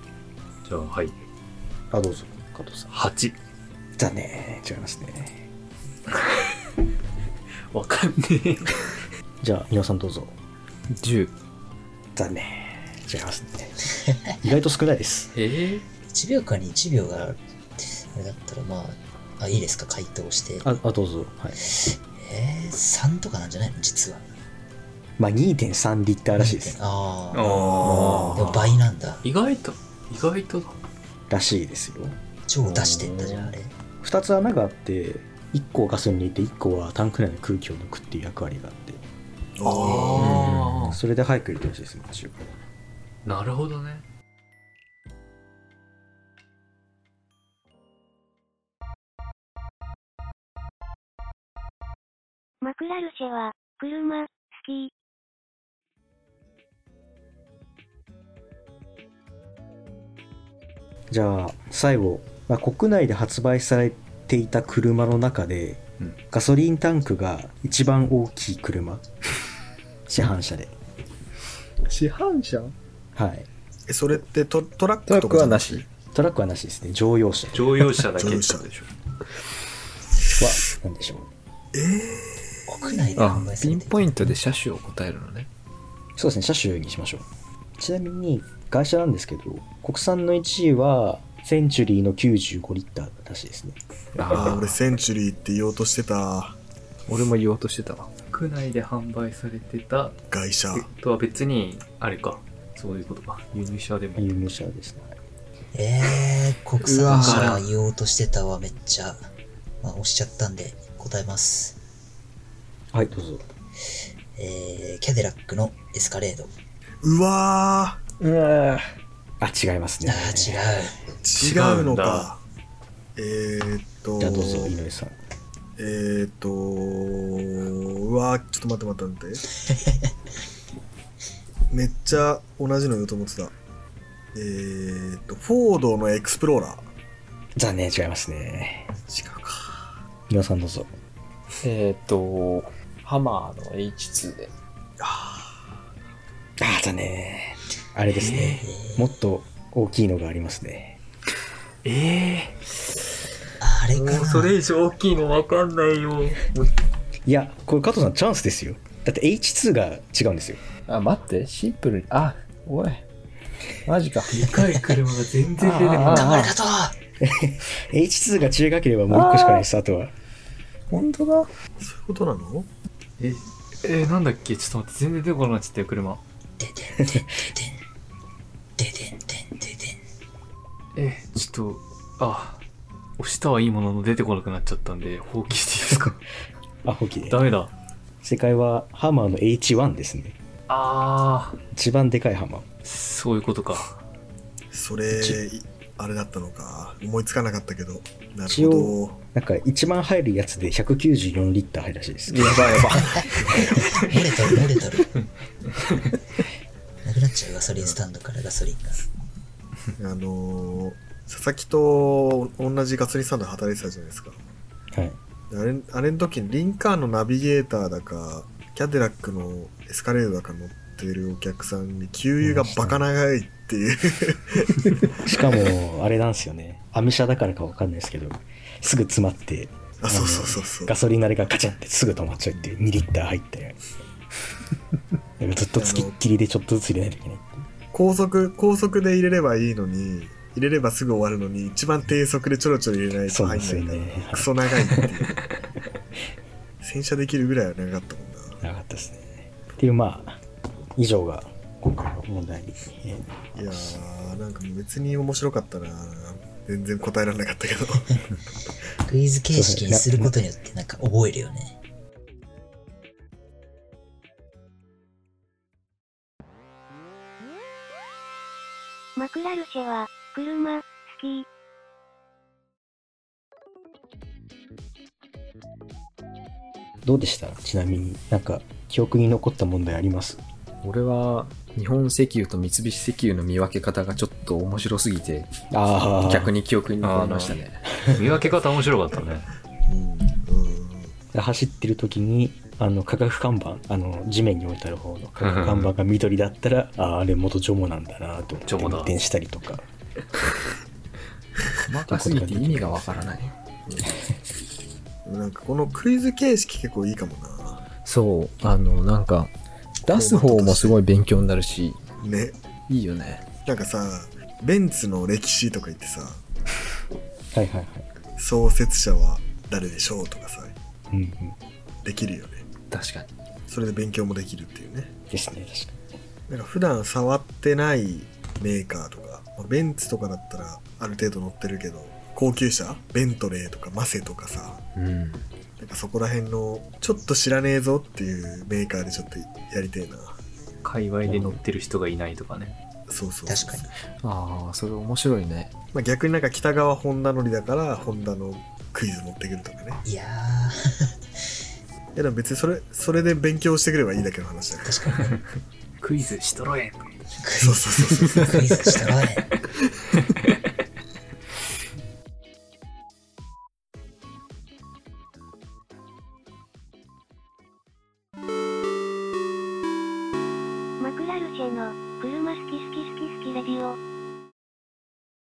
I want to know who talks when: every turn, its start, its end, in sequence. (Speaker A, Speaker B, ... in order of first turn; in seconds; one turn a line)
Speaker A: 0.6-1.2
Speaker B: 1.9-2.9
Speaker A: 2.9-3.4
Speaker B: 4.0-5.5
Speaker A: 7.7-8.8
Speaker B: 9.4-10.3
Speaker C: 10.9-11.3
Speaker B: 12.1-13.8
Speaker D: 14.0-14.3
Speaker B: 14.4-15.3
Speaker A: 15.3-15.8
Speaker D: 16.1-20.8
Speaker B: 20.6-21.6
Speaker D: 21.7-24.3
Speaker B: 25.2-26.8
Speaker D: 26.3-29.2
Speaker A: 27.3-30.8
Speaker E: 27.5-28.4
Speaker C: 28.1-28.4
Speaker B: 31.3-32.2
Speaker D: 32.5-33.7
Speaker C: 32.6-33.5
Speaker B: 34.0-39.0
Speaker E: 39.6-40.4
Speaker A: 39.6-41.0
Speaker D: 39.7-40.4
Speaker C: 40.2-41.0
Speaker B: 40.8-42.5
Speaker A: 43.2-44.0
Speaker F: 52.6-54.9
Speaker B: 61.1-69.0
Speaker B: 70.1-70.7
Speaker C: 71.8-72.7
Speaker B: 73.1-73.5
Speaker E: 73.9-75.8
Speaker C: 75.1-75.8
Speaker B: 76.1-78.0
Speaker A: 77.5-78.7
Speaker E: 78.2-78.7
Speaker C: 78.5-78.8
Speaker B: 80.4-81.3
Speaker E: 81.7-83.2
Speaker D: 82.7-84.1
Speaker C: 83.2-85.5
Speaker B: 86.2-87.3
Speaker B: 87.8-93.8
Speaker C: 94.2-94.8
Speaker E: 94.3-96.6
Speaker C: 97.1-98.1
Speaker A: 98.3-100.2
Speaker E: 100.3-100.9
Speaker A: 100.7-104.3
Speaker B: 104.2-105.2
Speaker D: 105.7-109.2
Speaker C: 106.8-107.6
Speaker A: 107.1-107.6
Speaker D: 109.8-111.8
Speaker B: 112.9-113.4
Speaker D: 114.3-116.5
Speaker E: 117.0-118.0
Speaker C: 118.2-118.9
Speaker B: 119.4-120.6
Speaker D: 120.0-120.9
Speaker E: 121.2-122.4
Speaker A: 121.4-122.3
Speaker E: 123.2-124.7
Speaker B: 124.2-125.2
Speaker E: 125.8-129.4
Speaker D: 129.7-130.1
Speaker E: 131.7-133.5
Speaker E: 134.3-136.9
Speaker B: 137.6-138.9
Speaker E: 139.1-139.9
Speaker B: 140.3-140.9
Speaker C: 141.6-144.5
Speaker E: 145.0-145.5
Speaker B: 146.6-151.0
Speaker A: 148.2-148.5
Speaker C: 148.3-148.6
Speaker D: 148.6-149.1
Speaker A: 151.8-152.6
Speaker D: 153.6-154.6
Speaker C: 153.9-156.5
Speaker A: 154.8-156.5
Speaker B: 157.2-160.6
Speaker C: 160.8-163.1
Speaker C: 163.8-164.8
Speaker A: 164.3-166.3
Speaker C: 165.6-166.5
Speaker D: 166.0-166.9
Speaker B: 167.2-170.1
Speaker C: 169.1-169.7
Speaker C: 170.9-171.5
Speaker E: 171.8-172.7
Speaker A: 173.2-176.2
Speaker D: 176.6-177.8
Speaker B: 177.0-177.2
Speaker D: 178.8-180.0
Speaker A: 180.9-182.6
Speaker A: 183.2-186.2
Speaker B: 186.8-187.5
Speaker A: 187.3-187.7
Speaker B: 188.2-190.4
Speaker A: 190.7-191.6
Speaker B: 191.7-192.7
Speaker A: 192.8-194.0
Speaker E: 194.7-199.2
Speaker B: 195.1-195.4
Speaker B: 198.5-203.2
Speaker C: 202.3-204.1
Speaker D: 202.9-205.1
Speaker D: 207.0-209.0
Speaker E: 210.0-214.4
Speaker E: 215.5-224.8
Speaker B: 222.4-223.0
Speaker B: 225.2-233.8
Speaker E: 230.0-230.9
Speaker B: 235.4-237.6
Speaker E: 235.8-236.1
Speaker E: 237.9-245.5
Speaker B: 243.3-245.1
Speaker E: 246.8-248.6
Speaker B: 248.6-250.4
Speaker B: 250.9-254.0
Speaker E: 253.5-258.2
Speaker D: 259.0-261.8
Speaker B: 259.5-260.3
Speaker F: 269.2-271.4
Speaker B: 277.0-280.4
Speaker C: 280.8-285.5
Speaker B: 285.7-286.5
Speaker C: 286.2-287.9
Speaker A: 287.0-289.5
Speaker E: 289.9-291.1
Speaker B: 291.3-299.8
Speaker A: 295.4-295.9
Speaker A: 298.6-299.1
Speaker C: 301.9-303.5
Speaker B: 302.1-303.3
Speaker E: 303.9-304.2
Speaker E: 305.2-307.9
Speaker C: 308.0-309.5
Speaker C: 310.0-312.0
Speaker E: 310.1-311.0
Speaker E: 312.2-312.6
Speaker C: 312.9-313.5
Speaker E: 313.6-316.4
Speaker B: 317.5-318.1
Speaker E: 318.4-320.8
Speaker B: 321.1-321.6
Speaker E: 322.0-322.7
Speaker C: 322.9-323.3
Speaker E: 323.7-325.1
Speaker B: 325.3-326.1
Speaker E: 326.5-334.8
Speaker C: 334.9-335.5
Speaker E: 335.8-340.4
Speaker A: 340.8-342.8
Speaker C: 341.2-341.6
Speaker E: 343.1-343.9
Speaker D: 343.5-343.9
Speaker C: 344.2-345.7
Speaker E: 345.9-350.0
Speaker D: 350.0-351.1
Speaker E: 352.1-355.0
Speaker D: 354.8-355.4
Speaker A: 356.0-357.1
Speaker D: 357.4-359.5
Speaker E: 357.6-358.7
Speaker F: 371.0-374.0